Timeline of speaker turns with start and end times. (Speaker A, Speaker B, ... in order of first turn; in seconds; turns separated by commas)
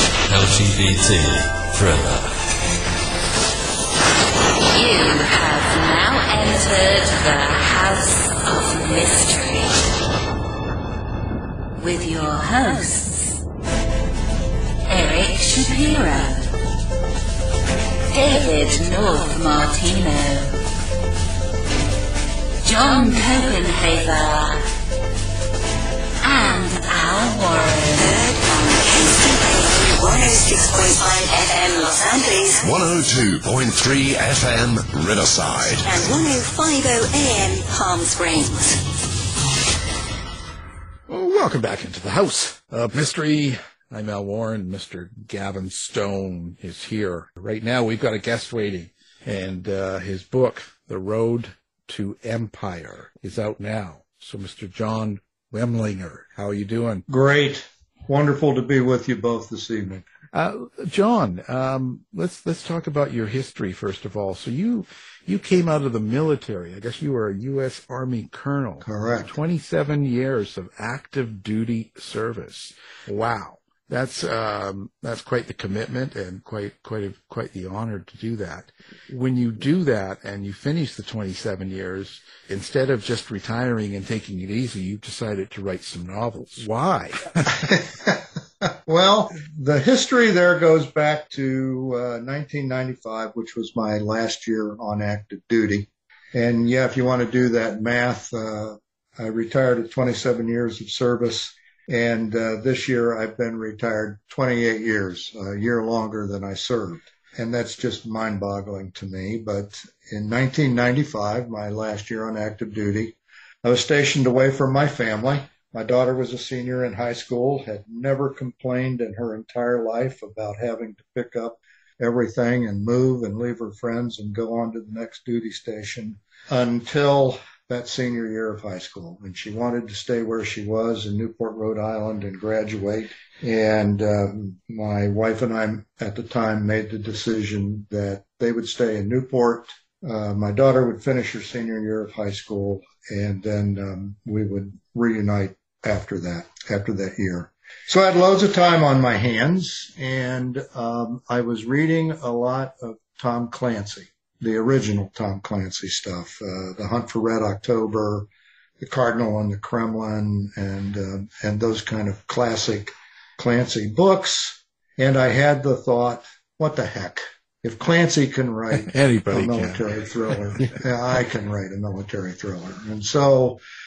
Speaker A: 0.3-2.3, Speaker B: 4.7-9.8, Speaker B: 11.8-13.3, Speaker B: 14.9-16.5, Speaker B: 18.1-20.6, Speaker B: 22.6-24.6, Speaker B: 26.2-28.1, Speaker C: 28.0-32.6, Speaker D: 32.6-35.9, Speaker C: 35.9-38.8, Speaker E: 41.1-57.0, Speaker F: 57.1-60.1, Speaker E: 60.3-87.7, Speaker F: 68.8-69.4, Speaker F: 87.8-158.3, Speaker F: 158.8-173.6, Speaker E: 168.8-169.8